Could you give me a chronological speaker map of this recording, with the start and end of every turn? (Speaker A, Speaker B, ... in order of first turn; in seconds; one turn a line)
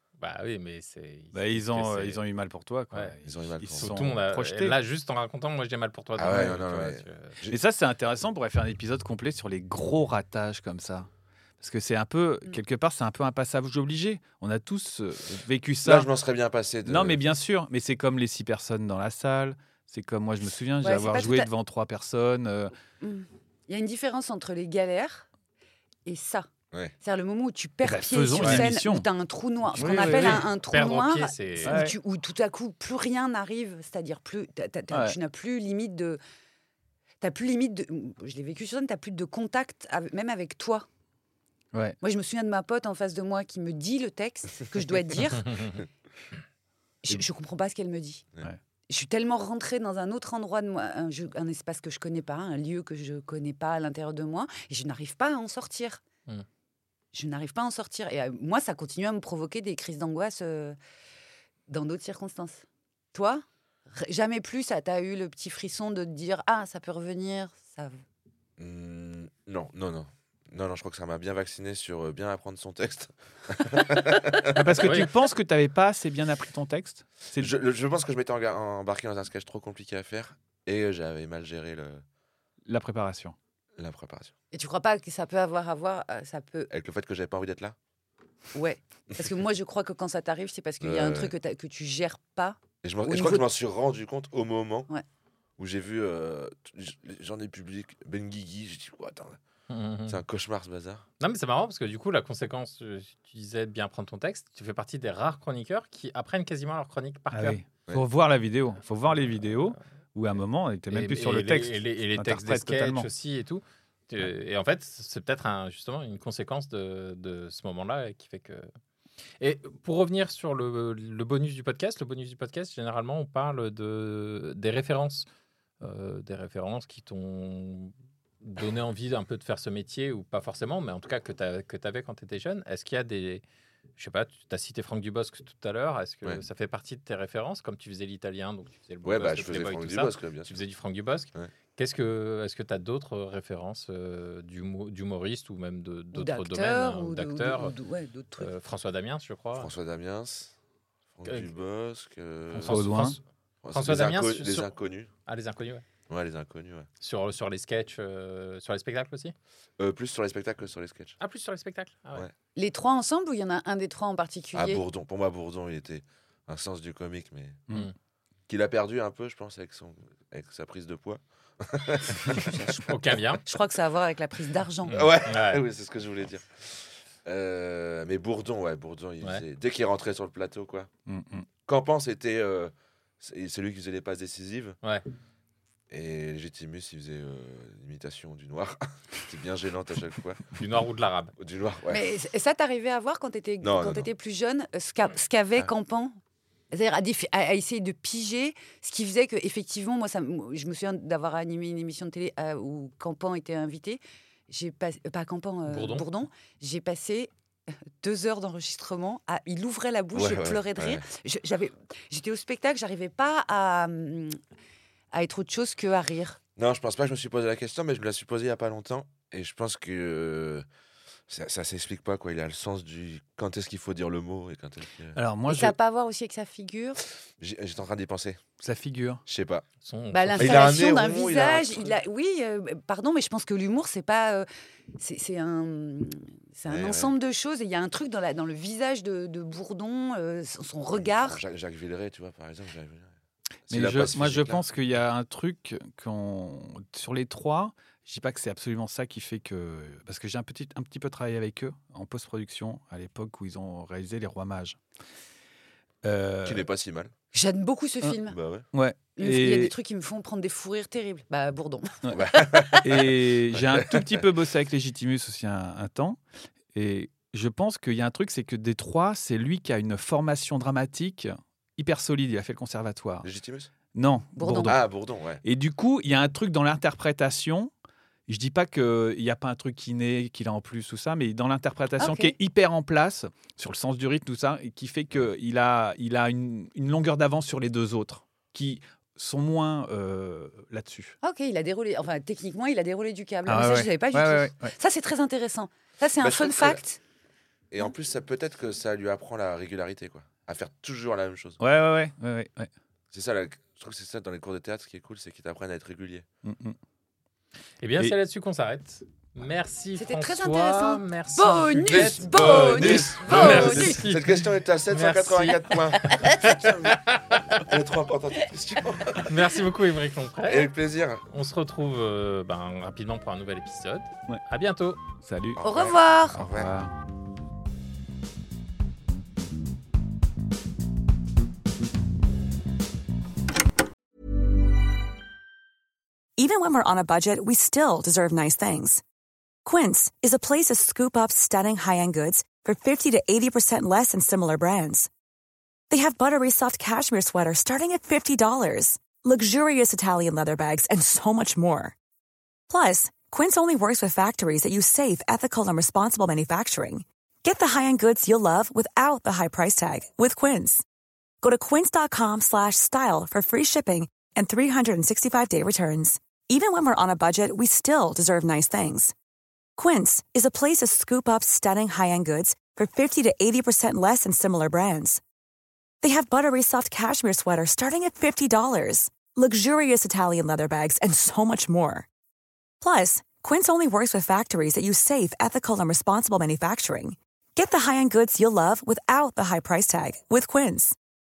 Speaker A: 0.2-2.2
Speaker B: 1.3-4.8
Speaker C: 3.2-4.0
Speaker A: 3.8-7.4
Speaker C: 6.2-7.6
Speaker B: 7.5-11.1
Speaker B: 11.6-16.1
Speaker C: 15.8-17.2
Speaker B: 16.8-22.7
Speaker D: 20.8-21.5
Speaker D: 23.0-25.2
Speaker D: 26.1-26.5
Speaker D: 27.0-36.2
Speaker B: 27.8-29.1
Speaker A: 28.4-28.6
Speaker B: 29.7-30.4
Speaker C: 29.8-30.2
Speaker A: 30.2-31.8
Speaker B: 31.6-31.9
Speaker B: 34.9-35.2
Speaker D: 37.2-40.9
Speaker B: 41.7-42.0
Speaker D: 42.0-45.5
Speaker D: 47.0-48.3
Speaker D: 48.9-56.0
Speaker D: 57.1-60.8
Speaker D: 61.7-63.4
Speaker D: 63.9-67.9
Speaker C: 68.6-75.0
Speaker B: 74.5-77.5
Speaker A: 74.8-75.1
Speaker C: 77.3-82.0
Speaker B: 82.7-83.4
Speaker C: 83.8-84.3
Speaker D: 84.5-86.7
Speaker C: 86.7-87.8
Speaker D: 88.5-93.5
Speaker C: 90.8-91.3
Speaker C: 92.7-94.9
Speaker C: 95.6-99.4
Speaker A: 99.7-100.2
Speaker C: 100.1-101.0
Speaker A: 101.2-107.6
Speaker B: 107.3-113.1
Speaker A: 110.9-118.7
Speaker A: 119.4-125.3
Speaker A: 125.8-133.4
Speaker A: 134.0-147.7
Speaker C: 139.0-140.6
Speaker D: 146.1-148.5
Speaker A: 148.4-149.7
Speaker C: 149.5-150.5
Speaker C: 151.2-152.8
Speaker B: 152.5-153.2
Speaker A: 152.6-154.8
Speaker C: 153.6-155.1
Speaker A: 155.3-155.8
Speaker C: 156.1-156.9
Speaker A: 157.0-159.3
Speaker C: 159.8-161.2
Speaker A: 161.2-162.2
Speaker D: 162.6-164.8
Speaker C: 164.6-167.7
Speaker C: 168.5-173.0
Speaker D: 172.4-172.8
Speaker A: 172.9-173.4
Speaker D: 173.5-175.0
Speaker A: 174.9-175.6
Speaker C: 174.9-180.9
Speaker B: 181.1-181.5
Speaker C: 181.7-184.8
Speaker C: 185.9-190.5
Speaker A: 190.6-191.3
Speaker C: 191.4-192.1
Speaker D: 191.9-196.1
Speaker C: 193.6-194.1
Speaker D: 196.7-207.3
Speaker A: 205.7-206.1
Speaker D: 208.0-214.3
Speaker C: 210.2-211.1
Speaker D: 215.1-216.4
Speaker C: 216.6-220.6
Speaker C: 221.3-225.2
Speaker B: 225.2-225.8
Speaker D: 225.5-227.0
Speaker C: 227.4-228.4
Speaker B: 228.6-229.2
Speaker C: 229.3-229.7
Speaker A: 229.8-230.7
Speaker D: 230.1-234.5
Speaker C: 230.4-232.0
Speaker D: 235.0-241.4
Speaker C: 236.7-237.2
Speaker C: 240.9-243.1
Speaker C: 243.7-244.6
Speaker B: 243.7-254.8
Speaker B: 256.0-256.7
Speaker C: 256.4-257.1
Speaker D: 257.3-258.4
Speaker C: 258.3-258.7
Speaker B: 258.7-259.8
Speaker D: 259.1-262.5
Speaker B: 262.1-266.2
Speaker C: 262.1-262.8
Speaker C: 263.4-264.1
Speaker B: 266.7-273.3
Speaker C: 273.2-273.7
Speaker B: 273.9-277.7
Speaker D: 274.4-274.7
Speaker C: 274.7-275.4
Speaker B: 278.3-291.1
Speaker D: 282.0-282.3
Speaker D: 291.2-297.0
Speaker B: 293.4-294.7
Speaker C: 296.2-296.8
Speaker C: 297.7-301.6
Speaker B: 301.6-302.7
Speaker C: 303.1-306.2
Speaker B: 306.4-306.8
Speaker A: 307.8-317.4
Speaker D: 310.0-314.0
Speaker C: 311.9-316.9
Speaker C: 317.6-319.4
Speaker A: 319.2-320.7
Speaker C: 320.4-321.2
Speaker A: 321.3-325.0
Speaker B: 325.2-325.6
Speaker C: 325.6-326.7
Speaker D: 325.6-326.4
Speaker B: 326.4-326.9
Speaker E: 336.4-339.0
Speaker E: 339.7-345.1
Speaker E: 345.9-351.9
Speaker E: 352.7-360.8
Speaker E: 361.4-369.1
Speaker E: 369.8-375.2
Speaker E: 376.0-382.1
Speaker E: 382.8-391.0